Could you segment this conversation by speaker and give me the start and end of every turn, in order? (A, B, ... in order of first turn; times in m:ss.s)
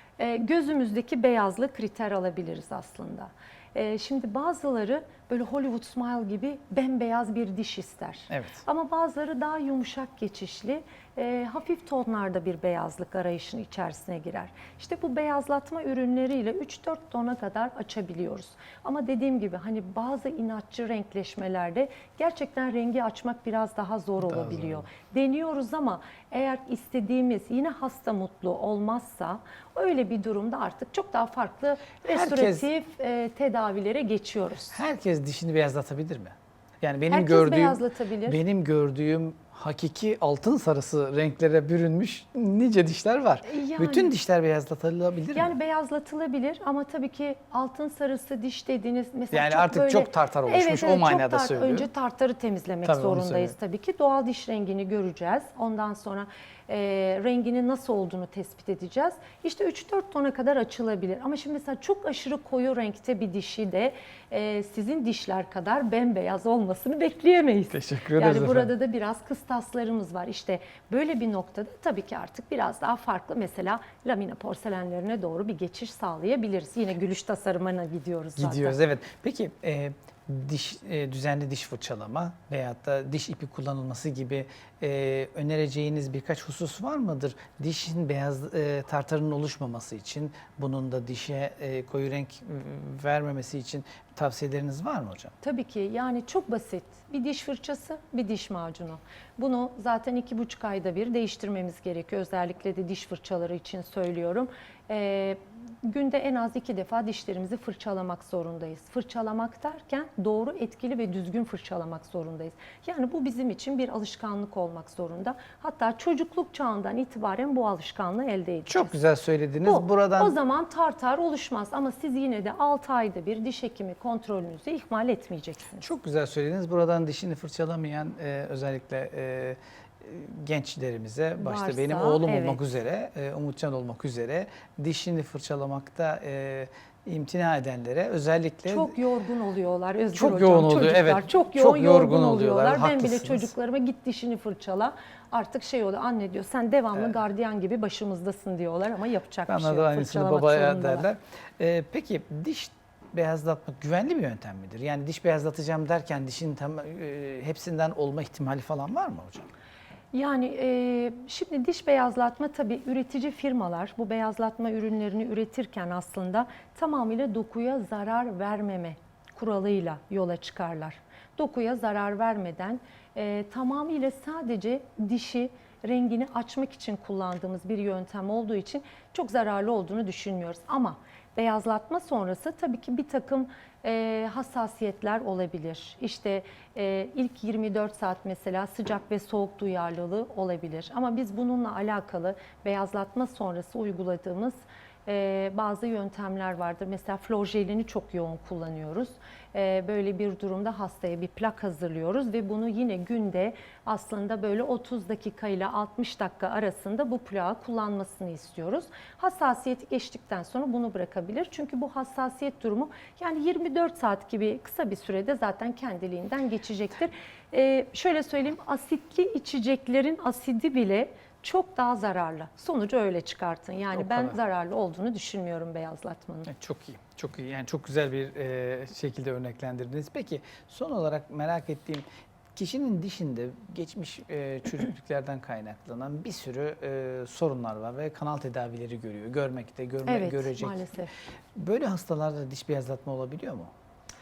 0:00.2-0:34.8 A
0:08.3-0:08.6 B
0:24.2-0:24.9 B
0:32.0-0:32.7 B
0:34.7-0:45.6 B
0:37.1-0:38.4 A
0:43.4-0:44.1 A
0:45.3-1:18.8 A
0:49.3-0:51.9 B
0:52.8-0:53.6 B
1:07.7-1:08.7 B
1:18.4-1:35.3 B
1:35.4-1:59.0 A
1:58.7-2:00.4 B
1:59.6-2:05.9 A
2:05.8-2:19.0 B
2:11.4-2:12.6 A
2:18.7-2:31.1 A
2:20.1-2:23.5 B
2:29.5-2:39.5 B
2:40.1-3:46.5 A
3:43.9-3:44.4 B
3:46.5-4:00.8 B
4:00.0-4:01.1 A
4:01.6-4:03.7 B